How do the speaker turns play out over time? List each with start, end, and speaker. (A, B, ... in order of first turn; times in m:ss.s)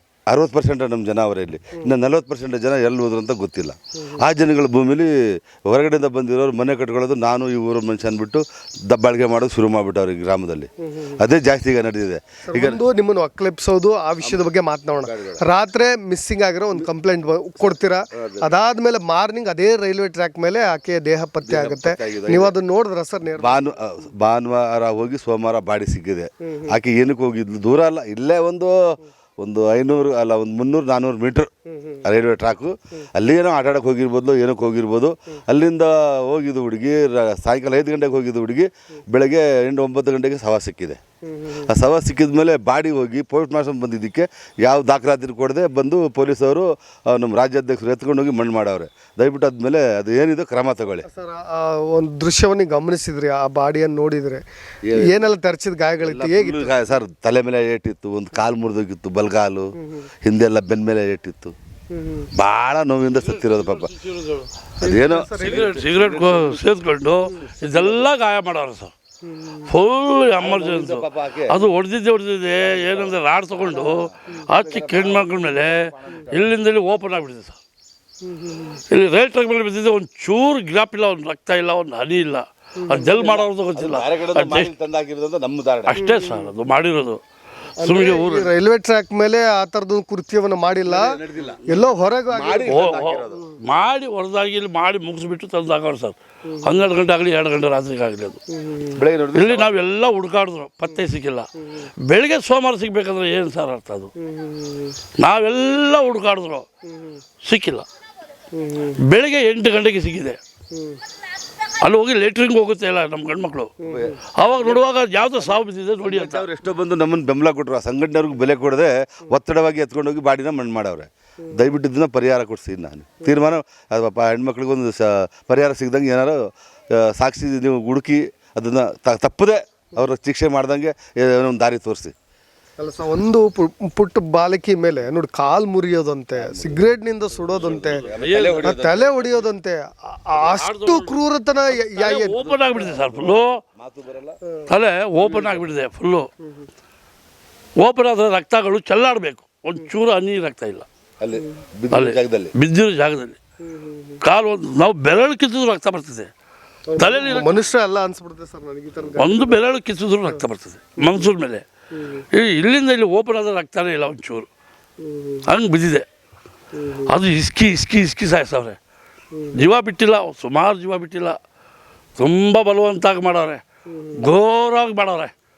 0:00.3-0:12.8 A
0:12.5-0:23.6 B
0:14.2-0:14.5 A
0:15.0-0:15.4 A
0:17.6-0:18.5 A
0:21.4-0:22.6 A
0:23.4-0:31.5 A
0:32.0-0:41.0 A
0:41.7-0:51.1 A
0:51.1-0:54.4 B
0:54.9-0:55.2 A
0:54.9-0:56.8 B
0:56.0-1:01.6 A
1:01.9-1:02.3 B
1:02.4-1:03.9 A
1:03.7-1:04.5 C
1:04.8-1:05.9 B
1:04.8-1:06.6 A
1:05.4-1:08.9 C
1:09.3-1:09.7 B
1:09.7-1:17.6 C
1:10.4-1:11.6 A
1:12.6-1:16.5 A
1:18.3-1:18.8 B
1:18.9-1:24.7 C
1:22.8-1:23.4 B
1:23.7-1:26.0 A
1:25.9-1:27.2 C
1:26.0-1:26.5 B
1:27.8-1:28.5 C
1:27.8-1:31.1 B
1:30.8-1:33.4 A
1:31.7-1:33.2 B
1:32.7-1:38.4 C
1:38.5-1:39.0 B
1:39.0-1:39.8 A
1:39.4-1:41.5 C
1:42.1-1:44.1 C
1:44.2-1:44.9 B
1:45.2-1:46.7 C
1:47.4-1:47.9 C
1:48.6-1:49.0 B
1:49.0-1:50.4 C
1:51.8-1:53.7 C
1:53.8-1:54.2 B
1:53.9-1:54.9 A
1:54.4-1:56.4 C
1:55.4-2:12.1 A
2:12.8-2:18.0 B
2:16.4-2:16.8 A
2:17.5-2:19.4 A
2:18.0-2:18.7 C
2:18.6-2:22.4 B
2:20.4-2:21.2 C
2:21.8-2:23.6 C
2:22.8-2:24.4 A
2:24.7-2:26.3 C
2:27.8-2:30.9 C
2:31.2-2:32.5 A
2:31.9-2:33.4 C
2:33.7-2:34.2 B
2:34.2-2:36.3 C
2:36.9-2:39.6 B
2:37.0-2:37.6 C
2:39.2-2:41.6 C
2:42.3-2:44.5 C
2:45.1-2:45.4 B
2:45.5-2:46.1 C
2:46.8-2:47.1 B
2:47.1-2:48.8 C
2:49.5-2:51.4 C
2:52.2-2:53.6 C
2:54.2-2:55.3 C